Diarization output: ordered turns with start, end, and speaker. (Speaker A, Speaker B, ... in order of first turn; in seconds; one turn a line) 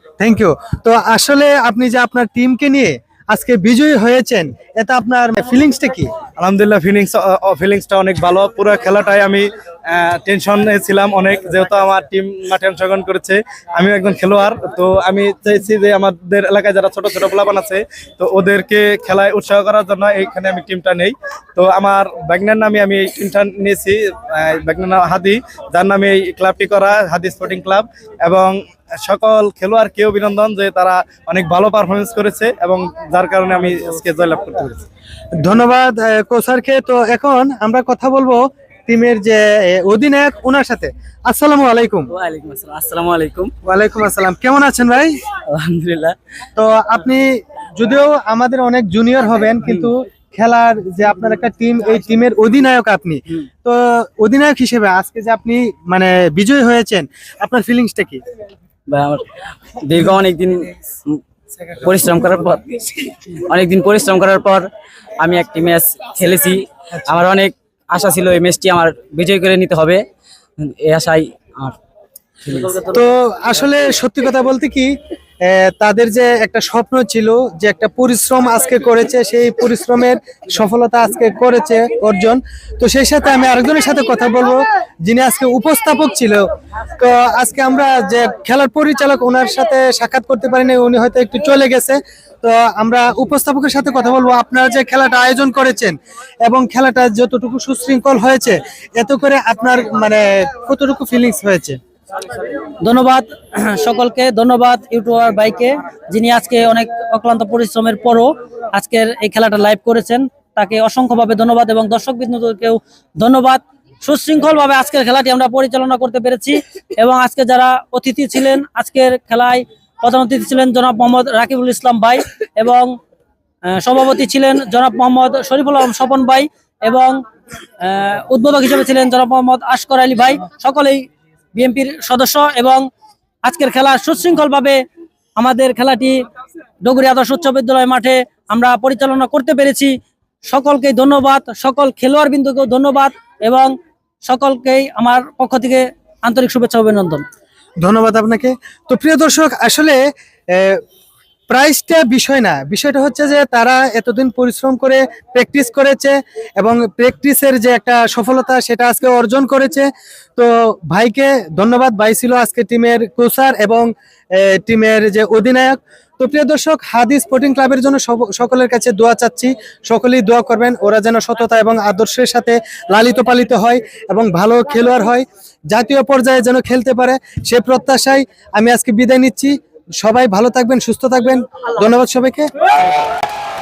Speaker A: 0.2-6.1
Speaker B: 6.4-34.8
Speaker A: 35.4-42.1
Speaker C: 42.1-43.5
Speaker A: 43.6-45.2
Speaker C: 45.3-46.1
Speaker A: 46.5-58.2
Speaker C: 58.9-61.2
Speaker C: 61.8-64.7
Speaker C: 65.2-70.0
Speaker C: 70.6-71.8
Speaker C: 72.4-72.8
Speaker A: 72.8-86.5
Speaker A: 87.0-101.8
Speaker D: 102.8-122.9
Speaker D: 123.6-127.2
Speaker D: 127.8-132.8
Speaker D: 133.4-134.8
Speaker D: 135.3-136.2
Speaker D: 136.8-139.9
Speaker D: 140.5-143.7
Speaker D: 144.2-147.2
Speaker A: 147.8-150.0
Speaker A: 150.5-150.8
Speaker A: 151.5-182.5